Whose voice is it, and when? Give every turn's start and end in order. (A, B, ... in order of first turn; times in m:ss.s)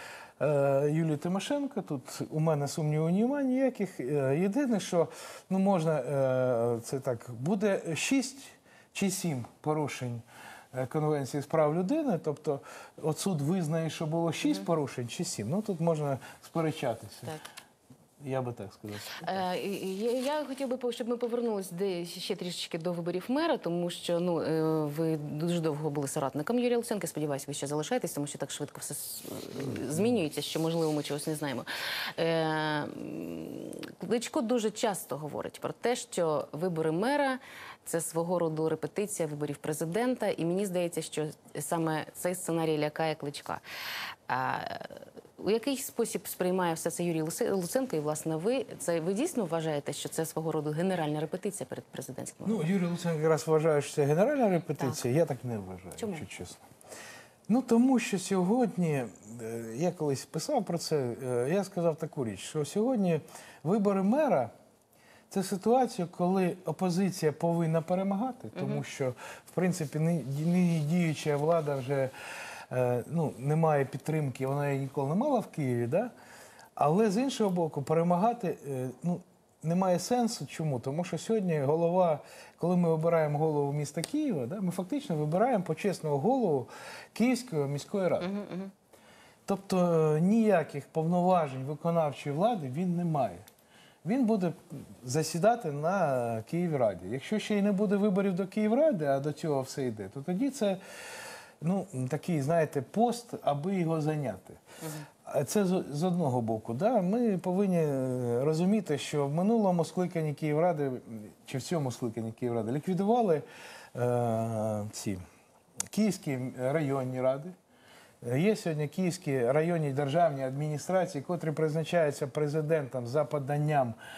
0:00.4-0:17.3 A
0:18.2-0:19.4 A
0:19.2-0:43.6 B
0:44.3-0:52.6 B
0:52.4-0:56.6 A
0:56.0-0:56.2 B
0:57.5-1:04.5 A
1:05.3-1:12.1 A
1:08.5-1:08.8 B
1:12.7-1:16.1 A
1:16.8-1:28.3 A
1:28.2-1:28.7 B
1:29.4-1:33.4 A
1:34.0-1:40.8 A
1:41.6-1:44.6 A
1:44.8-1:45.1 B
1:45.2-1:55.2 A
1:55.9-1:57.5 A
1:58.2-2:04.0 A